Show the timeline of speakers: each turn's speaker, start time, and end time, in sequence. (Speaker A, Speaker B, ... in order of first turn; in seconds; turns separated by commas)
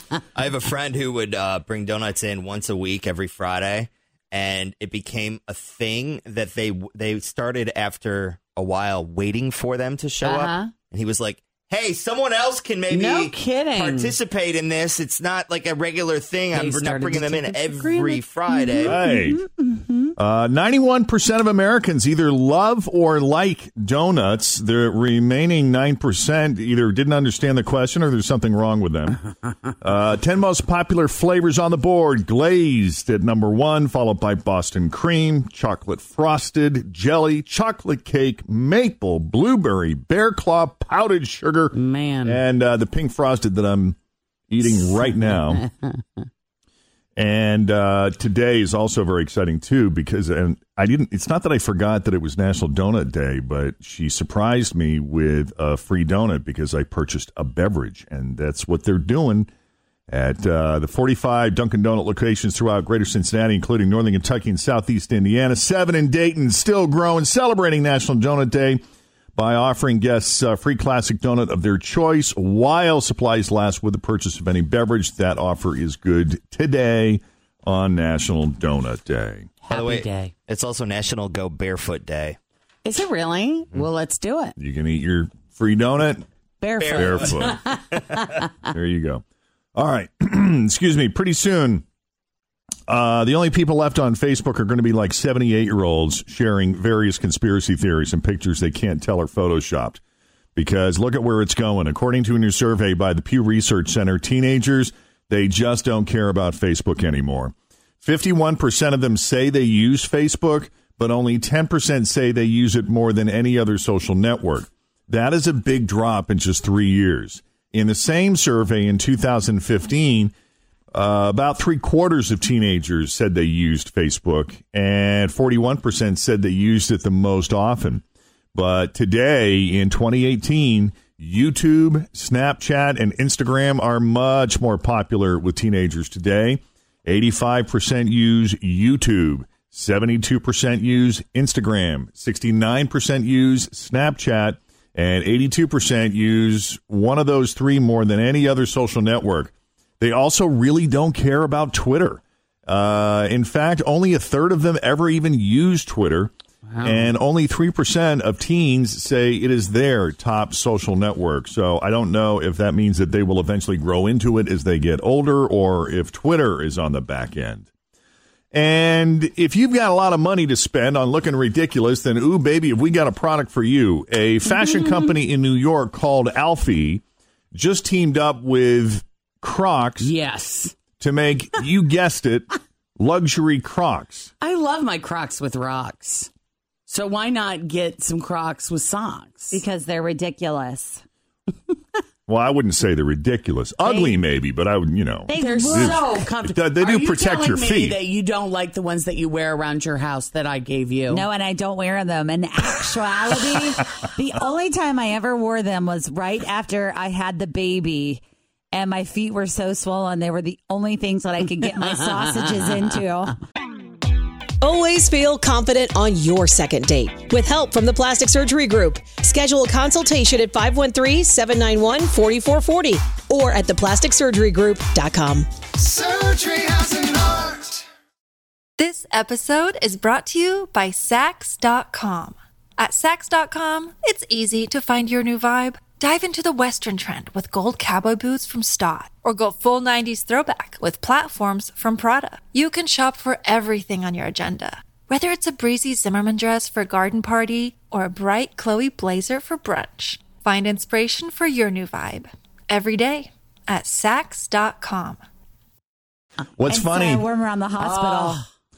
Speaker A: 0.3-19.1, Speaker B: 10.2-10.7, Speaker B: 12.9-14.1, Speaker B: 16.5-18.2, Speaker C: 18.8-19.4, Speaker C: 20.2-29.2, Speaker C: 29.8-44.0, Speaker B: 41.7-42.4, Speaker C: 44.5-45.6, Speaker B: 44.7-46.0, Speaker C: 47.1-59.5, Speaker C: 60.1-68.8, Speaker C: 69.3-79.5, Speaker B: 79.6-80.3, Speaker A: 79.7-82.4, Speaker B: 82.8-84.6, Speaker C: 84.6-86.2, Speaker D: 86.7-87.3, Speaker A: 86.8-88.4, Speaker C: 86.8-87.6, Speaker C: 88.7-89.2, Speaker C: 89.7-91.8, Speaker C: 92.9-100.0, Speaker C: 100.5-120.3, Speaker C: 120.9-167.7, Speaker B: 156.7-157.1, Speaker C: 168.5-180.1, Speaker B: 180.0-180.8, Speaker C: 181.0-184.3, Speaker B: 184.4-186.3, Speaker B: 186.9-189.6, Speaker D: 189.5-191.0, Speaker C: 192.3-198.0, Speaker D: 193.8-194.2, Speaker D: 195.3-196.2, Speaker B: 195.3-201.2, Speaker D: 201.1-208.2, Speaker D: 208.7-213.3, Speaker B: 211.8-212.9, Speaker E: 214.6-225.5, Speaker C: 226.2-227.0, Speaker F: 228.8-255.2, Speaker C: 256.6-257.2, Speaker D: 256.6-258.4, Speaker B: 257.8-258.4